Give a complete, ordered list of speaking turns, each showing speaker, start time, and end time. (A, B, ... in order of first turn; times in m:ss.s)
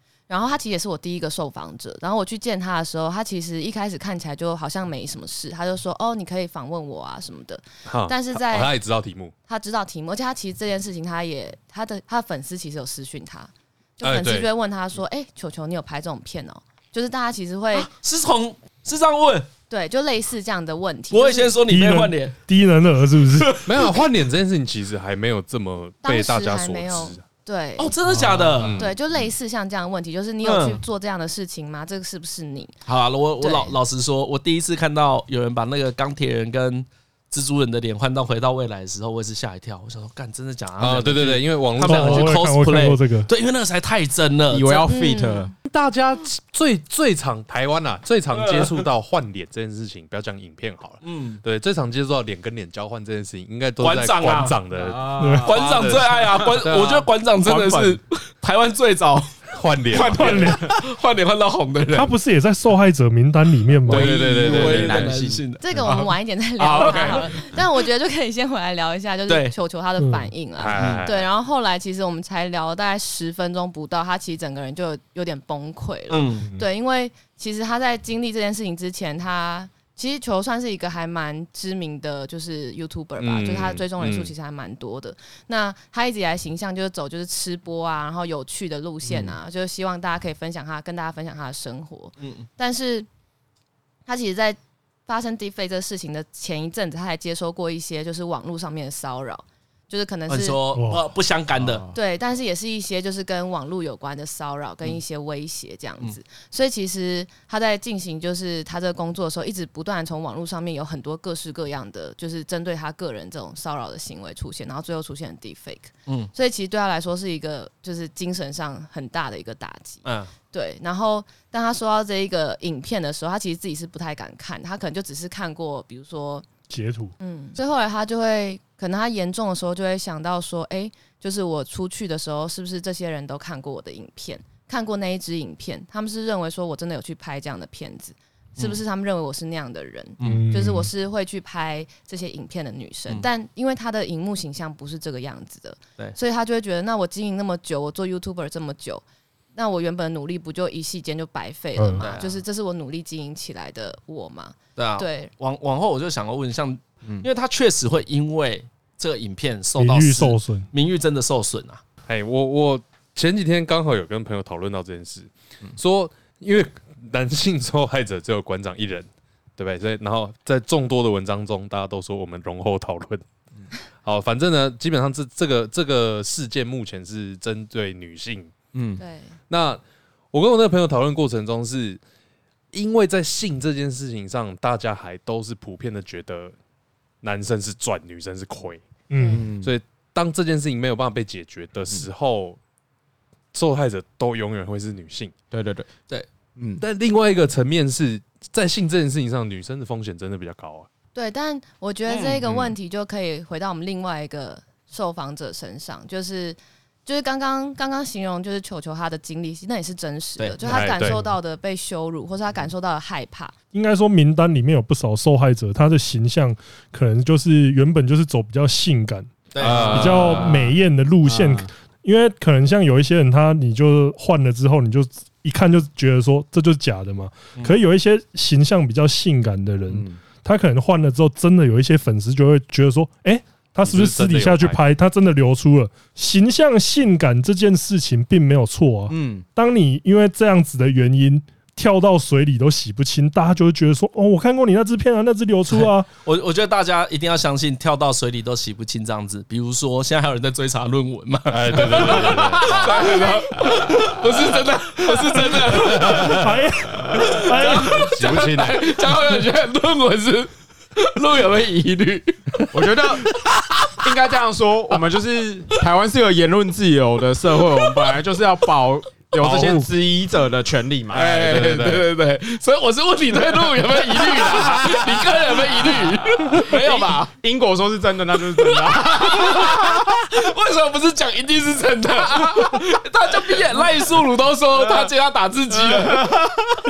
0:00.3-0:08.7 A
0:07.9-0:09.3 B
0:09.5-0:17.9 A
0:14.0-0:14.5 B
0:17.7-0:19.5 C
0:19.7-0:21.6 A
0:21.1-0:22.4 C
0:21.7-0:23.6 D
0:23.3-0:24.1 C
0:23.6-0:27.2 B
0:26.0-0:28.0 A
0:27.8-0:28.9 C
0:28.4-0:29.0 B
0:28.8-0:32.7 A
0:30.4-0:30.8 C
0:32.9-0:44.9 C
0:33.4-0:33.8 A
0:40.8-0:42.4 B
0:41.8-0:43.3 D
0:44.5-0:45.5 E
0:44.9-0:45.5 A
0:45.6-0:57.1 B
0:48.3-0:48.9 C
0:51.0-0:51.4 C
0:53.8-0:54.6 C
0:54.7-0:56.7 E
0:55.2-0:55.5 D
0:55.4-0:59.4 C
0:57.4-0:58.0 E
0:59.5-1:00.6 B
0:59.9-1:02.1 C
1:00.0-1:00.7 D
1:01.9-1:04.2 D
1:03.9-1:05.4 E
1:03.9-1:05.2 B
1:03.9-1:06.1 C
1:05.6-1:33.1 A
1:06.6-1:07.3 E
1:06.6-1:07.3 C
1:09.3-1:09.5 C
1:10.0-1:10.3 D
1:10.6-1:11.3 B
1:10.8-1:11.1 C
1:16.1-1:16.5 C
1:23.2-1:24.3 B
1:32.2-1:32.5 C
1:34.1-1:40.6 A
1:40.3-1:41.9 C
1:40.8-1:41.0 D
1:41.6-1:41.9 E
1:41.9-2:06.5 A
2:00.0-2:00.3 C
2:06.7-2:07.1 D
2:07.2-2:29.0 A
2:18.6-2:18.8 C
2:20.2-2:20.5 C
2:20.2-2:20.9 D
2:29.6-2:35.3 A
2:31.8-2:32.1 D
2:32.0-2:32.4 C
2:34.8-2:41.8 C
2:39.8-2:40.7 D
2:42.1-2:53.2 B
2:54.0-2:58.5 B
2:58.7-2:59.0 E
2:59.0-2:59.4 A
2:59.5-2:59.8 B
3:00.3-3:02.0 B
3:02.7-3:06.5 B
3:07.2-3:08.9 B
3:09.1-3:09.5 D
3:09.2-3:09.4 A
3:09.3-3:09.7 E
3:09.6-3:12.6 B
3:13.5-3:15.3 B
3:15.5-3:15.9 E
3:16.6-3:16.8 E
3:16.8-3:20.9 B
3:21.2-3:33.6 A
3:22.1-3:22.6 C
3:30.4-3:30.9 C
3:30.6-3:31.3 B
3:33.7-4:06.1 D
3:39.5-3:40.4 C
3:39.6-3:40.7 B
3:41.2-3:41.7 E
3:49.9-3:50.2 E
3:53.8-3:54.8 B
3:59.1-3:59.4 E
4:05.7-4:16.5 C
4:11.5-4:13.2 B
4:12.4-4:12.9 E
4:15.7-4:16.6 B
4:15.9-4:18.1 D
4:17.0-4:24.0 C
4:17.6-4:19.0 B
4:22.7-4:23.4 E
4:23.9-4:31.6 E
4:27.7-4:28.2 C
4:29.4-4:29.9 B
4:31.1-4:37.3 C
4:31.2-4:32.1 B
4:34.2-4:40.4 E
4:38.5-4:46.6 C
4:42.4-4:42.8 E
4:44.8-4:45.1 E
4:45.8-4:46.8 E